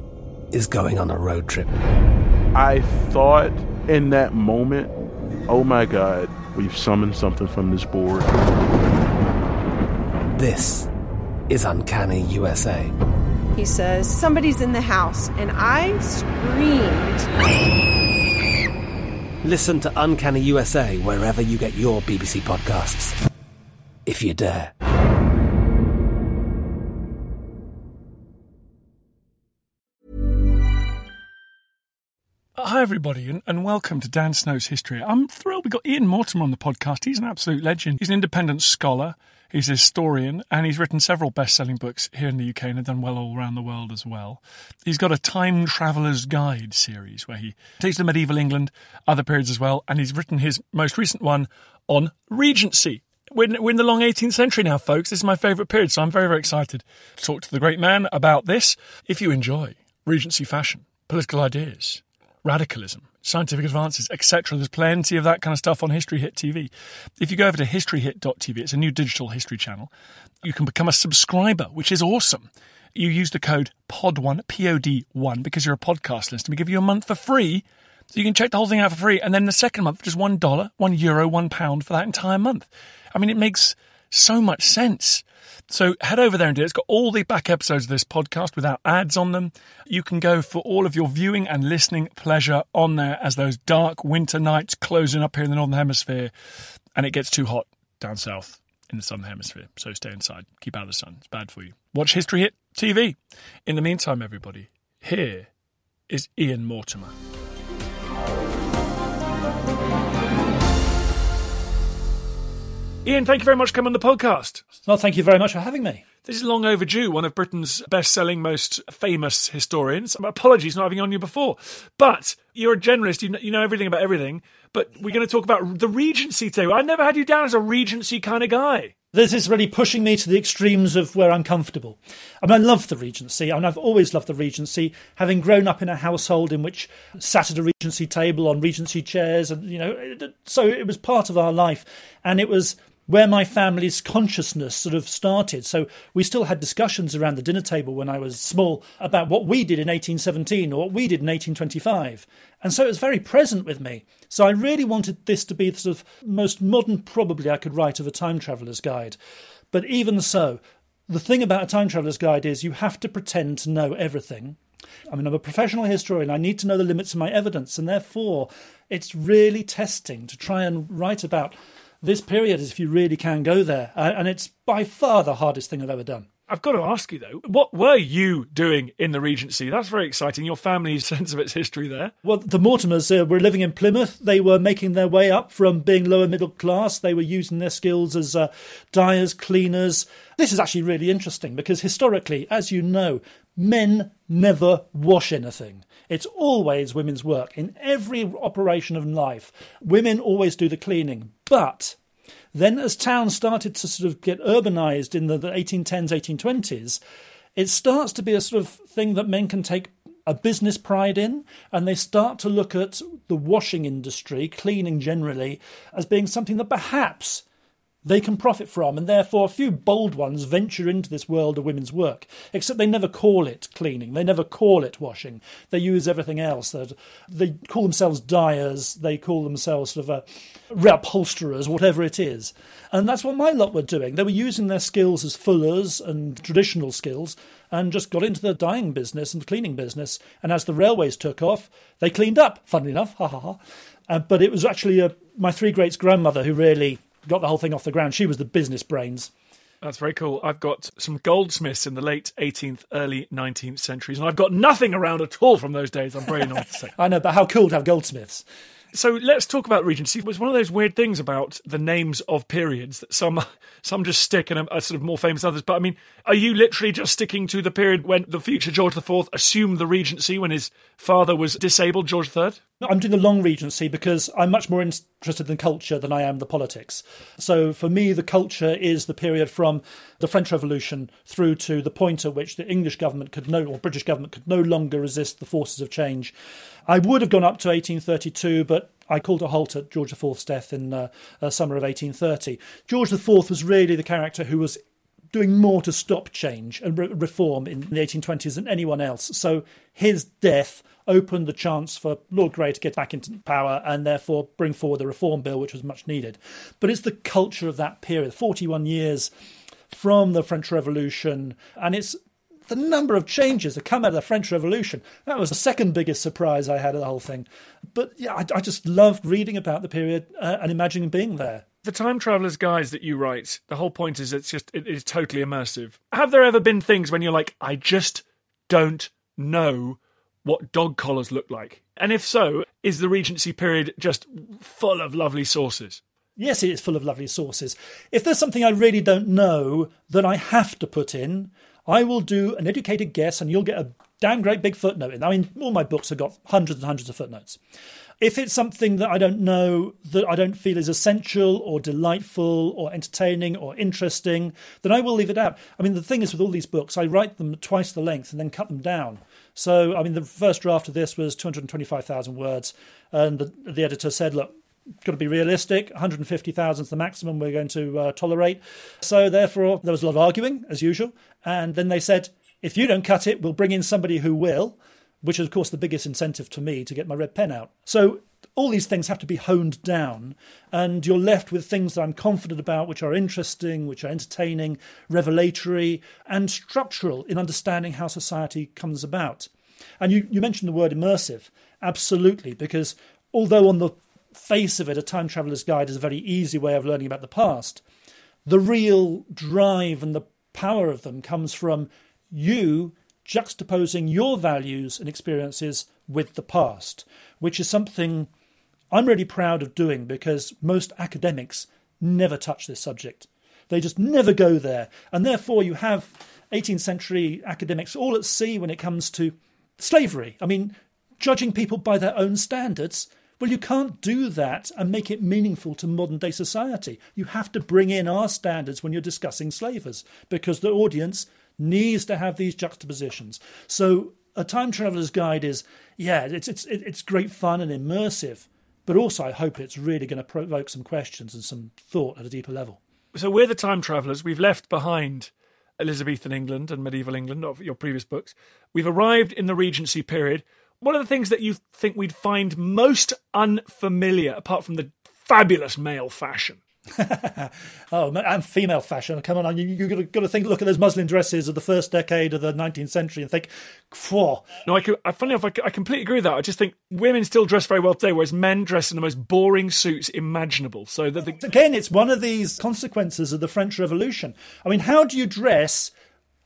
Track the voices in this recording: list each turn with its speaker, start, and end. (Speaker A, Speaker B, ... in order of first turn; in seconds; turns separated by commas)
Speaker A: 0.5-1.7, Speaker B: 2.5-4.9, Speaker B: 5.5-8.3, Speaker A: 10.3-10.9, Speaker A: 11.5-12.9, Speaker C: 13.6-17.3, Speaker A: 19.4-23.1, Speaker A: 24.1-24.7, Speaker D: 32.6-69.9, Speaker D: 70.4-96.3, Speaker D: 97.0-105.5, Speaker D: 106.1-107.1, Speaker D: 113.0-114.6, Speaker E: 114.8-116.1, Speaker D: 116.2-128.9, Speaker E: 129.1-159.2, Speaker E: 159.7-164.6, Speaker E: 165.1-176.3, Speaker D: 176.5-182.1, Speaker E: 182.2-202.0, Speaker E: 202.5-207.0, Speaker E: 207.6-217.4, Speaker E: 218.1-249.3, Speaker D: 249.8-256.9, Speaker E: 257.0-258.4, Speaker D: 258.9-272.6, Speaker E: 272.8-286.3, Speaker E: 286.9-294.8, Speaker E: 295.3-309.3, Speaker E: 309.9-321.6, Speaker D: 321.8-336.0, Speaker E: 336.4-347.6, Speaker E: 348.2-389.5, Speaker E: 390.0-397.8, Speaker E: 398.5-408.3, Speaker E: 408.9-442.8, Speaker D: 443.1-456.6, Speaker E: 456.9-464.5, Speaker D: 464.6-471.4, Speaker E: 471.4-475.9